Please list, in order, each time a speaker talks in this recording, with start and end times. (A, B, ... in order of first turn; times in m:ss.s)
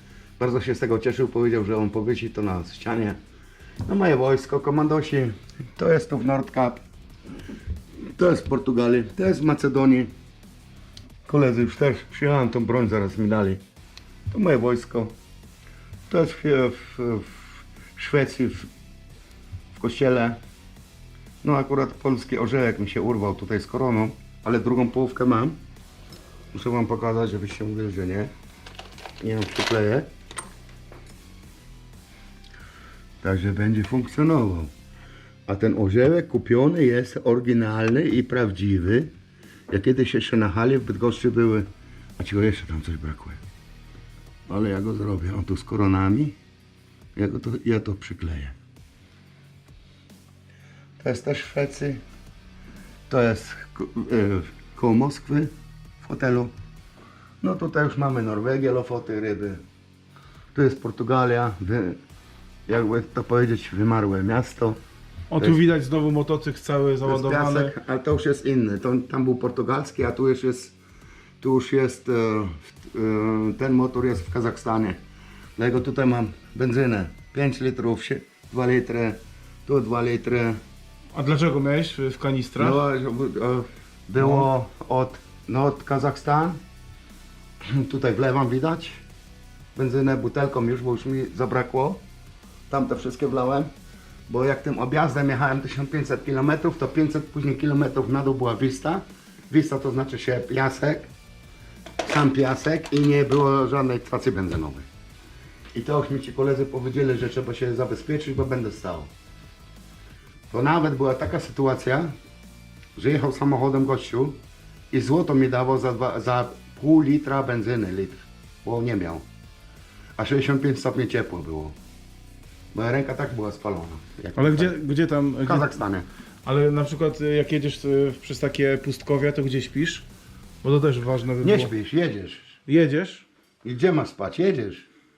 0:00.4-0:03.2 A
0:03.8-0:06.8 A
0:08.2-0:10.1 A
0:11.3-0:13.6 A
0:14.3-0:15.1 A
0:16.1-0:18.7 A
0:19.7-0:20.4 A
0:21.4-0:25.6 A
0:26.5-0:28.3 A
0:29.2-0:30.1 A
0:33.2-0:34.7 A
0:35.5-0:39.1 A
0:39.7-0:41.7 A
0:42.2-0:43.4 A
0:44.5-0:46.4 A
0:47.2-0:48.6 A
0:51.0-0:52.0 A
0:53.1-0:56.5 A
0:57.4-0:59.6 A
1:00.5-1:02.0 A
1:02.7-1:04.8 A
1:05.3-1:07.7 B
1:07.0-1:10.8 A
1:11.4-1:15.0 A
1:15.6-1:20.6 A
1:21.2-1:22.8 B
1:22.6-1:26.6 A
1:24.2-1:24.5 B
1:27.7-1:29.0 A
1:29.8-1:32.0 A
1:32.7-1:33.7 A
1:34.3-1:41.1 A
1:42.0-1:44.9 A
1:45.7-1:49.1 A
1:50.5-1:52.1 A
1:53.0-1:54.4 A
1:54.9-1:59.3 A
2:00.2-2:01.8 A
2:02.7-2:04.7 A
2:04.4-2:05.7 B
2:05.4-2:06.1 A
2:06.4-2:10.1 B
2:10.6-2:11.7 B
2:11.4-2:12.6 A
2:12.7-2:13.3 B
2:13.6-2:14.9 A